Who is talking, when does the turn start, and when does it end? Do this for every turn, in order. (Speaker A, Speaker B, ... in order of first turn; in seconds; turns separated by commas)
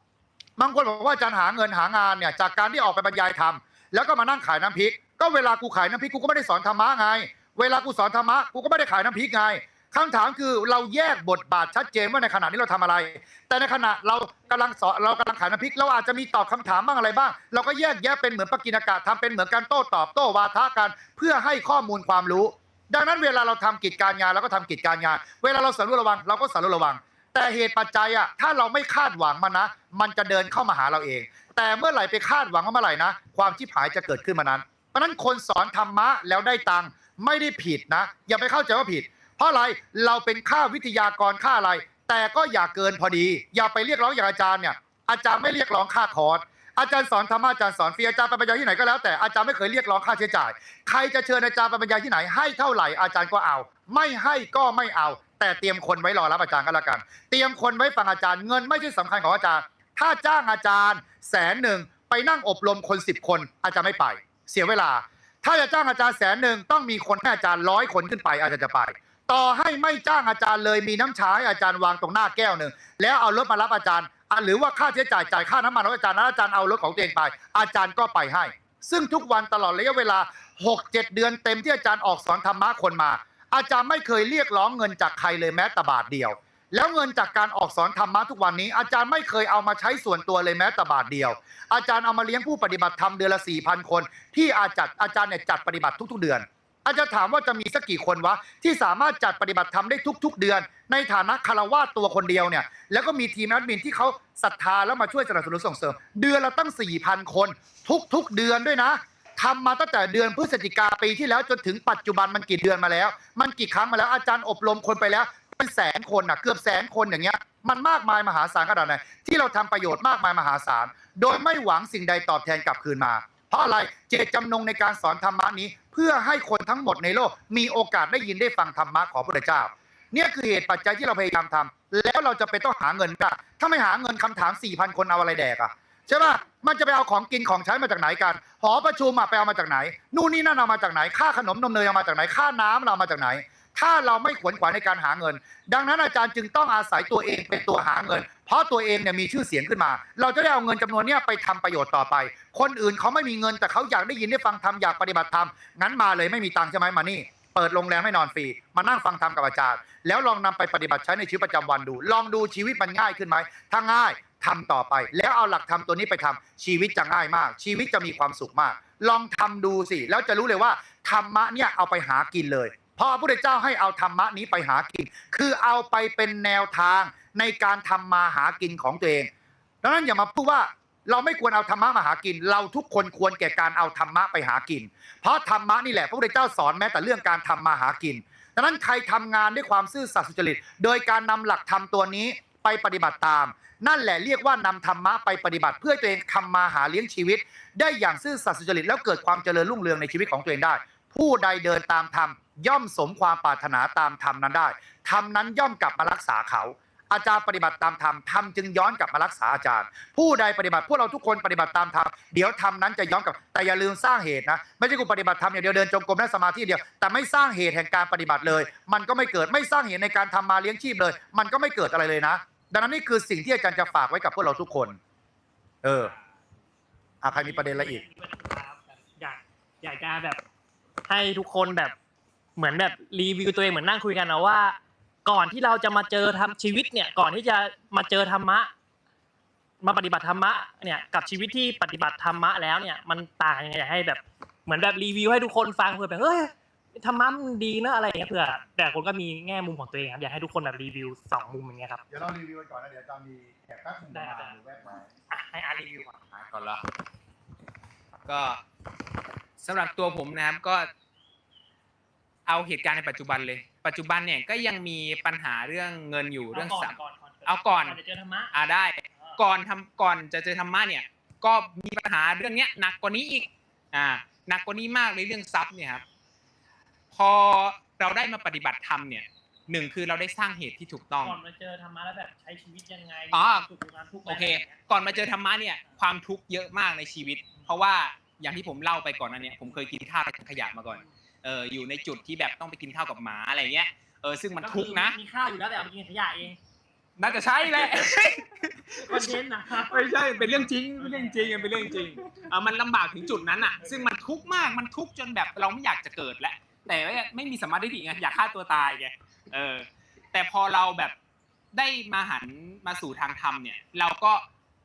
Speaker A: 0.6-179.3, Speaker A: 179.8-225.0, Speaker A: 225.8-226.1, Speaker A: 227.2-228.0, Speaker B: 227.3-230.4, Speaker B: 231.1-231.9, Speaker B: 232.6-238.7, Speaker B: 239.8-252.0, Speaker A: 252.1-255.1, Speaker B: 254.1-254.6, Speaker B: 255.3-256.2, Speaker C: 256.3-256.9, Speaker C: 258.3-258.6, Speaker C: 259.6-260.9, Speaker C: 262.5-268.0, Speaker B: 266.5-268.5, Speaker C: 268.5-276.0, Speaker C: 277.1-281.4, Speaker B: 281.2-284.9, Speaker C: 283.3-283.7, Speaker C: 284.2-295.2, Speaker B: 294.6-296.6, Speaker C: 297.2-311.1, Speaker B: 299.0-302.3, Speaker C: 311.7-314.4